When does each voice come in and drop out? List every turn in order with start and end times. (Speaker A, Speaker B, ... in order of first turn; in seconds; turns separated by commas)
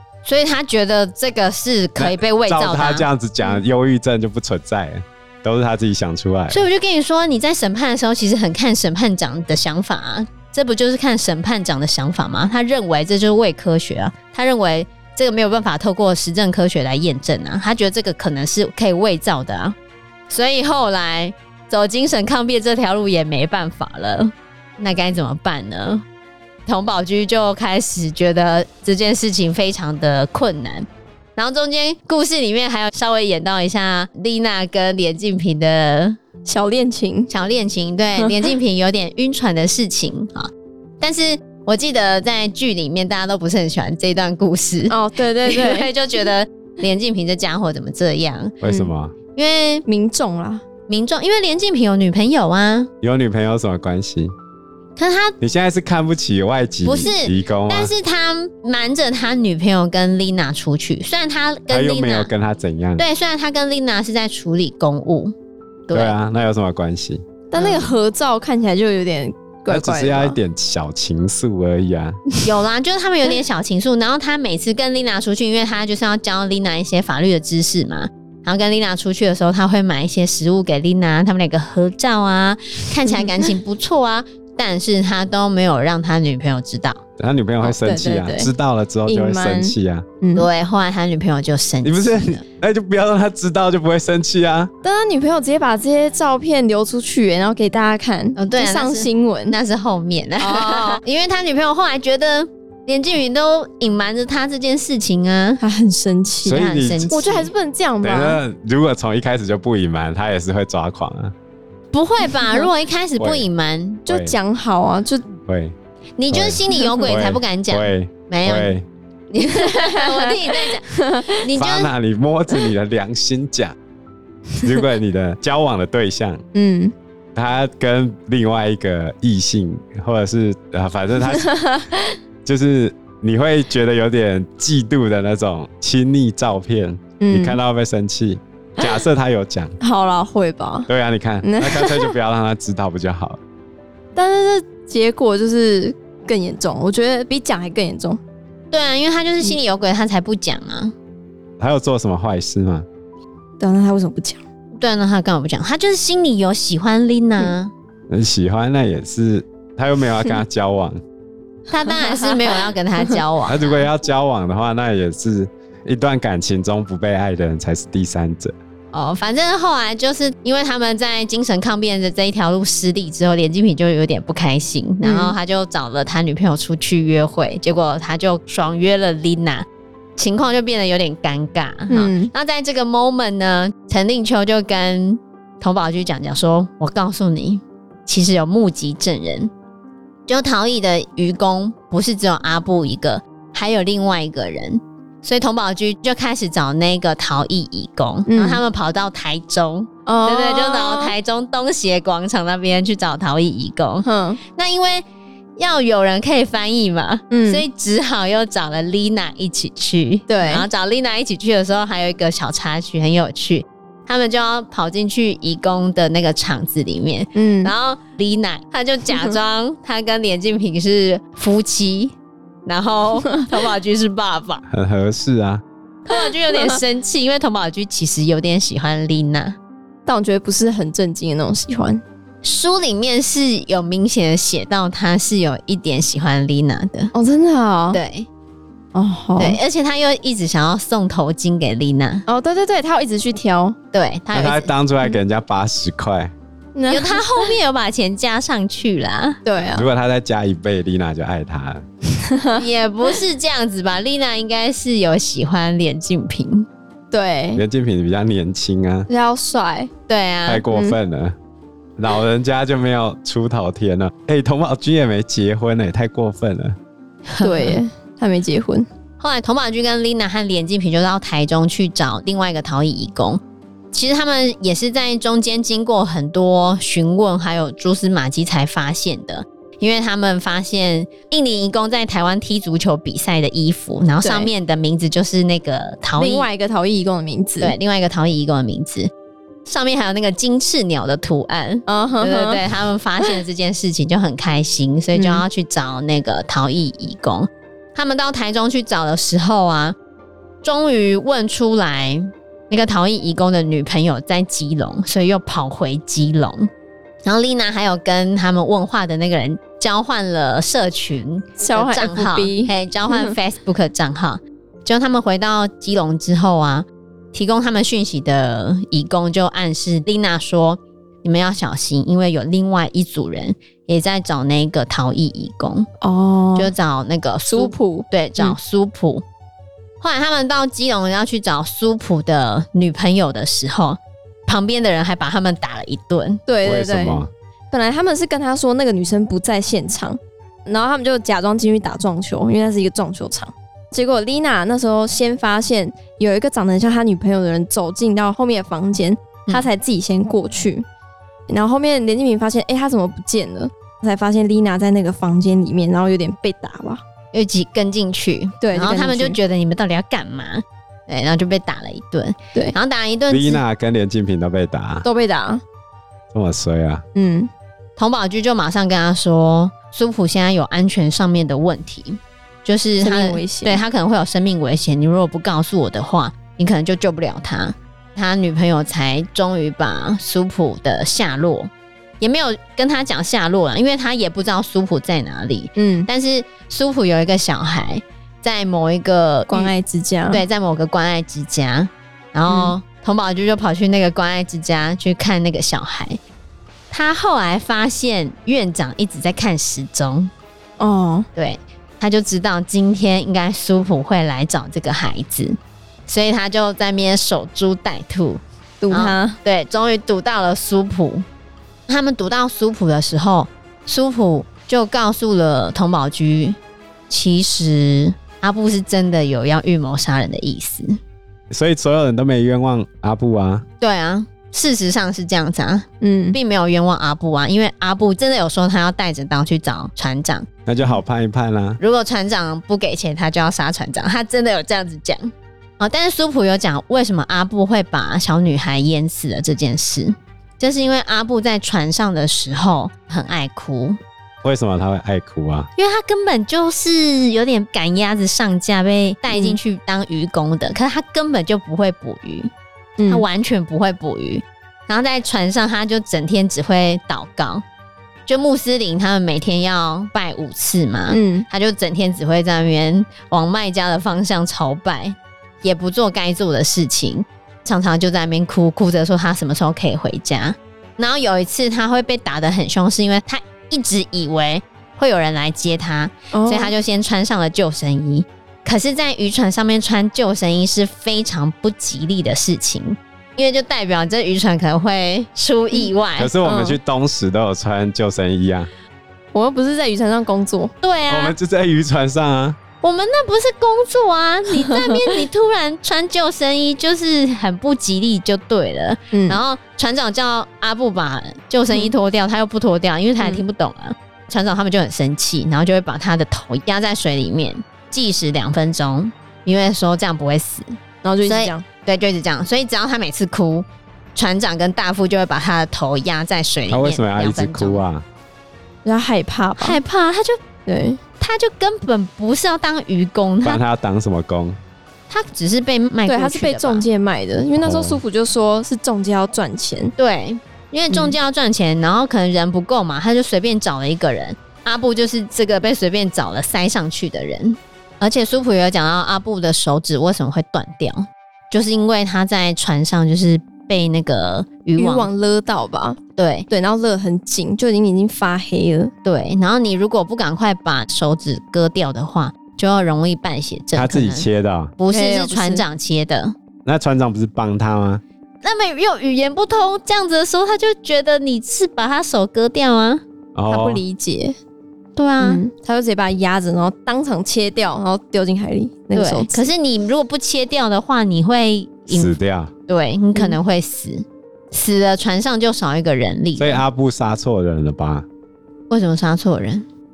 Speaker A: 0.2-3.1, Speaker B: 2.0-6.6, Speaker A: 6.5-19.8, Speaker A: 20.3-26.0, Speaker A: 26.7-36.2, Speaker C: 36.5-37.3, Speaker A: 37.3-40.5, Speaker C: 38.2-38.5, Speaker A: 41.0-48.5, Speaker C: 44.9-45.9, Speaker B: 48.6-49.1, Speaker C: 48.7-48.9, Speaker A: 49.4-49.9, Speaker C: 49.9-50.6, Speaker A: 50.9-52.9, Speaker B: 53.0-54.3, Speaker A: 55.0-55.4, Speaker B: 55.4-57.9, Speaker A: 56.8-62.3, Speaker B: 61.7-63.0, Speaker A: 63.0-65.3, Speaker A: 65.9-66.2, Speaker B: 65.9-67.2, Speaker C: 67.5-70.4, Speaker A: 67.5-67.9, Speaker B: 69.7-72.2, Speaker A: 72.4-87.0, Speaker B: 87.2-90.1, Speaker C: 87.6-88.5, Speaker C: 89.1-90.5, Speaker A: 90.3-92.4, Speaker B: 91.8-94.7, Speaker C: 94.8-99.6, Speaker A: 98.4-105.6, Speaker C: 100.4-101.0, Speaker C: 105.6-108.4, Speaker B: 106.4-107.1, Speaker A: 106.5-107.5, Speaker B: 108.0-111.3, Speaker A: 111.9-114.0, Speaker C: 112.3-112.7, Speaker B: 113.2-113.5, Speaker C: 114.1-115.3, Speaker B: 114.1-114.4, Speaker B: 115.5-115.8, Speaker A: 116.2-118.8, Speaker B: 116.3-118.8, Speaker A: 119.3-121.9, Speaker C: 119.4-121.4, Speaker B: 121.5-123.8, Speaker B: 124.6-126.4, Speaker C: 126.5-126.9, Speaker B: 127.3-131.5, Speaker C: 131.3-131.9, Speaker B: 132.4-139.8, Speaker C: 137.2-137.6, Speaker C: 138.8-139.0, Speaker C: 139.8-140.9, Speaker B: 140.9-143.4, Speaker C: 141.4-142.2, Speaker C: 144.2-148.2, Speaker A: 148.7-150.9, Speaker B: 151.6-152.9, Speaker C: 153.6-154.4, Speaker A: 154.8-157.7, Speaker B: 158.1-161.0, Speaker A: 161.7-163.8, Speaker C: 161.9-162.6, Speaker B: 163.5-168.6, Speaker A: 168.9-179.7, Speaker C: 175.0-175.3, Speaker A: 180.2-189.5, Speaker C: 181.9-182.3, Speaker A: 190.3-205.1, Speaker C: 198.3-198.6, Speaker C: 200.1-201.2, Speaker C: 204.1-204.4, Speaker A: 205.6-222.2, Speaker C: 207.3-207.7, Speaker C: 210.3-210.7, Speaker C: 217.3-217.7, Speaker A: 222.7-224.6, Speaker B: 224.7-225.6, Speaker A: 226.1-229.6, Speaker C: 230.1-232.0, Speaker A: 232.4-237.1, Speaker C: 237.1-238.0, Speaker A: 237.9-238.3, Speaker C: 238.9-239.6, Speaker A: 239.4-242.2, Speaker C: 242.3-243.8, Speaker A: 243.9-244.7, Speaker B: 244.3-246.3, Speaker C: 246.8-247.6, Speaker A: 246.9-249.4, Speaker C: 249.4-249.9, Speaker B: 249.7-251.9, Speaker C: 252.3-252.6, Speaker A: 252.5-256.7, Speaker C: 257.1-257.6, Speaker B: 257.6-259.1, Speaker C: 259.1-259.9, Speaker A: 260.1-260.6, Speaker B: 260.5-261.4, Speaker C: 260.7-261.0, Speaker B: 262.0-266.8, Speaker A: 267.3-267.8, Speaker C: 267.4-268.9, Speaker A: 269.2-273.4, Speaker A: 273.9-286.5, Speaker C: 284.2-284.5, Speaker C: 286.2-287.8, Speaker A: 287.6-289.1, Speaker A: 289.7-300.0, Speaker C: 291.9-292.6, Speaker C: 295.1-295.4, Speaker A: 300.6-306.7, Speaker A: 307.2-325.9, Speaker C: 311.6-313.4, Speaker C: 326.0-326.7, Speaker A: 326.6-329.2, Speaker C: 327.5-328.6, Speaker A: 330.0-336.4, Speaker C: 336.5-350.9, Speaker B: 336.6-337.3, Speaker C: 351.5-357.0, Speaker A: 357.3-363.6, Speaker C: 358.6-359.4, Speaker B: 363.3-365.1, Speaker C: 365.0-365.6, Speaker B: 366.3-367.0, Speaker C: 367.1-367.5, Speaker A: 368.0-389.7, Speaker C: 373.0-373.8, Speaker C: 385.8-386.1, Speaker C: 389.5-390.4, Speaker A: 390.3-396.2, Speaker C: 392.5-392.7, Speaker A: 396.9-400.3, Speaker C: 400.8-401.3, Speaker A: 401.4-411.2, Speaker C: 408.8-409.4, Speaker A: 411.9-416.6, Speaker A: 417.1-421.0, Speaker B: 421.5-423.6, Speaker A: 423.8-430.5, Speaker C: 426.0-426.4, Speaker B: 430.7-431.8, Speaker A: 431.8-444.0, Speaker B: 444.4-445.7, Speaker A: 445.8-452.5, Speaker C: 449.3-449.6, Speaker C: 453.0-453.2, Speaker A: 453.1-457.6, Speaker A: 458.3-486.3, Speaker C: 461.1-461.5, Speaker C: 476.3-476.7, Speaker B: 486.2-488.7, Speaker C: 486.4-486.8, Speaker C: 489.3-490.7, Speaker A: 490.8-491.4, Speaker B: 491.1-492.6, Speaker A: 492.8-510.7, Speaker C: 494.6-495.1, Speaker C: 499.1-499.4, Speaker C: 511.0-511.6, Speaker A: 511.2-517.8, Speaker B: 516.7-518.1, Speaker C: 518.9-519.8, Speaker A: 519.6-520.4, Speaker C: 520.7-521.0, Speaker A: 521.2-523.6, Speaker B: 523.4-524.6, Speaker A: 525.1-526.9, Speaker C: 526.1-529.9, Speaker B: 527.6-528.0, Speaker A: 530.0-545.1, Speaker C: 544.8-546.0, Speaker A: 546.2-546.5, Speaker C: 546.5-548.9, Speaker A: 549.0-554.3, Speaker B: 553.8-554.8, Speaker A: 554.8-556.3, Speaker C: 554.9-555.6, Speaker B: 556.6-558.0, Speaker A: 558.4-563.0, Speaker B: 563.4-563.8, Speaker C: 563.5-564.4, Speaker A: 565.0-565.4, Speaker C: 565.2-569.5, Speaker A: 568.9-572.1, Speaker B: 571.9-572.5, Speaker A: 572.7-576.6, Speaker B: 576.4-578.1, Speaker A: 578.7-579.7